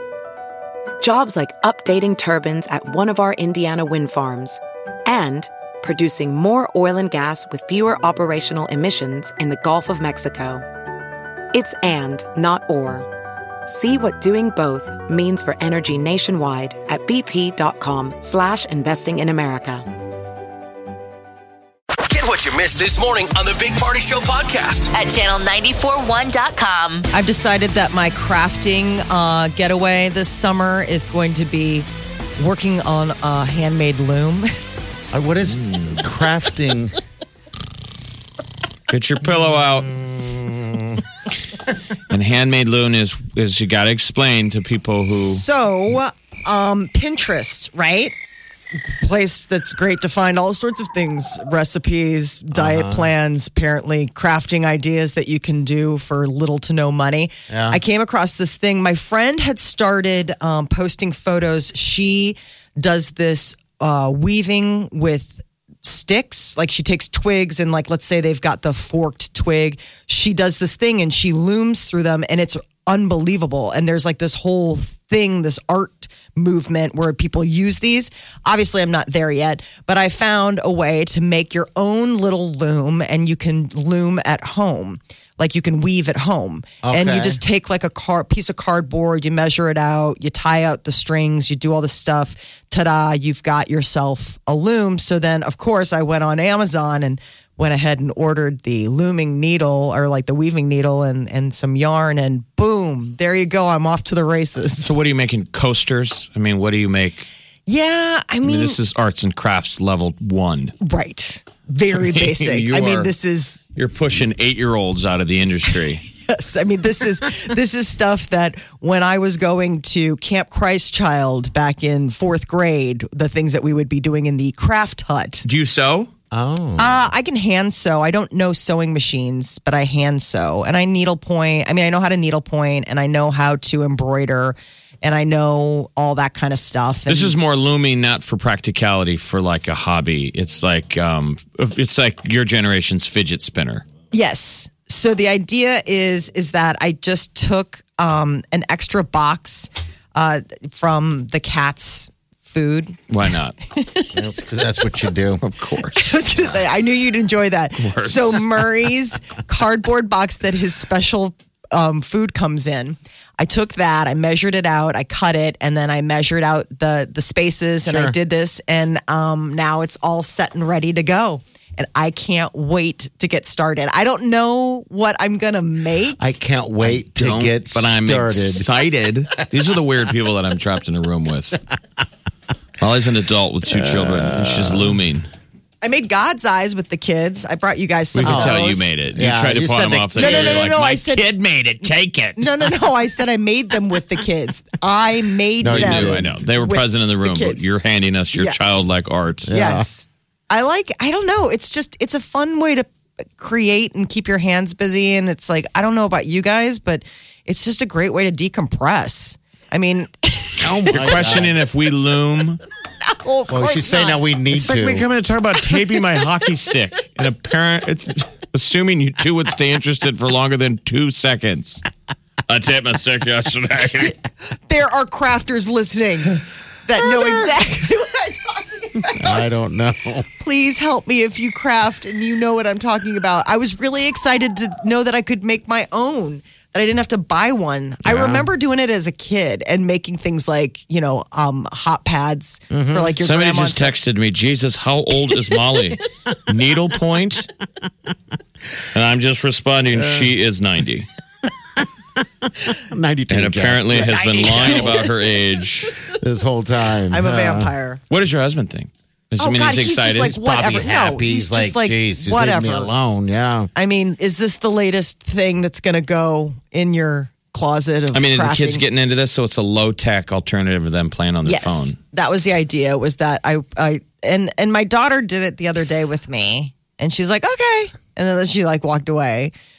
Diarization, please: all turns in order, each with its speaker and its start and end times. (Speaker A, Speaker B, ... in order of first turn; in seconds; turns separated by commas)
Speaker A: 1.0-10.6, Speaker A: 11.5-13.1, Speaker A: 13.7-19.8, Speaker B: 22.1-25.0, Speaker C: 24.9-27.1, Speaker D: 27.1-34.5, Speaker E: 35.1-37.0, Speaker F: 35.5-36.1, Speaker F: 38.9-39.9, Speaker E: 39.8-41.0, Speaker F: 42.1-45.4, Speaker D: 45.1-48.1, Speaker D: 49.0-104.9, Speaker E: 52.5-53.1, Speaker E: 57.5-57.8, Speaker E: 86.8-87.4, Speaker F: 104.8-107.3, Speaker D: 107.7-108.8, Speaker F: 108.4-110.7, Speaker D: 110.8-113.6, Speaker F: 112.0-113.1, Speaker F: 113.8-116.0, Speaker D: 116.2-125.5, Speaker F: 125.4-126.1, Speaker E: 126.3-127.1, Speaker D: 126.8-137.4, Speaker F: 137.1-143.8, Speaker D: 144.1-153.0, Speaker F: 153.1-153.6, Speaker D: 153.7-154.1, Speaker E: 154.1-155.4, Speaker F: 155.4-156.5, Speaker D: 155.8-176.2, Speaker F: 157.8-158.5, Speaker E: 167.8-168.2, Speaker E: 176.2-178.7, Speaker F: 176.8-181.6, Speaker F: 182.8-185.3, Speaker E: 183.7-185.0, Speaker D: 185.8-188.9, Speaker F: 188.2-192.7, Speaker E: 188.2-188.6, Speaker E: 189.1-190.7, Speaker D: 190.2-191.2, Speaker D: 192.4-197.7, Speaker E: 195.6-196.4, Speaker F: 195.7-199.5, Speaker D: 198.3-198.8, Speaker E: 199.4-199.9, Speaker D: 199.5-211.4, Speaker E: 210.6-211.5, Speaker F: 210.9-212.6, Speaker D: 213.0-214.2, Speaker E: 213.5-215.1, Speaker F: 214.5-221.8, Speaker F: 222.5-224.1, Speaker D: 224.0-229.6, Speaker E: 227.1-227.3, Speaker E: 229.2-230.3, Speaker D: 230.4-243.9, Speaker E: 238.0-238.5, Speaker E: 242.7-243.2, Speaker F: 243.2-247.5, Speaker F: 248.9-251.1, Speaker E: 249.9-250.3, Speaker E: 251.8-254.9, Speaker F: 253.3-255.9, Speaker D: 254.1-255.1, Speaker E: 256.1-257.7, Speaker D: 257.1-258.0, Speaker F: 258.1-260.4, Speaker D: 259.4-262.9, Speaker E: 260.4-263.7, Speaker D: 263.8-268.8, Speaker F: 268.1-272.0, Speaker D: 271.4-279.5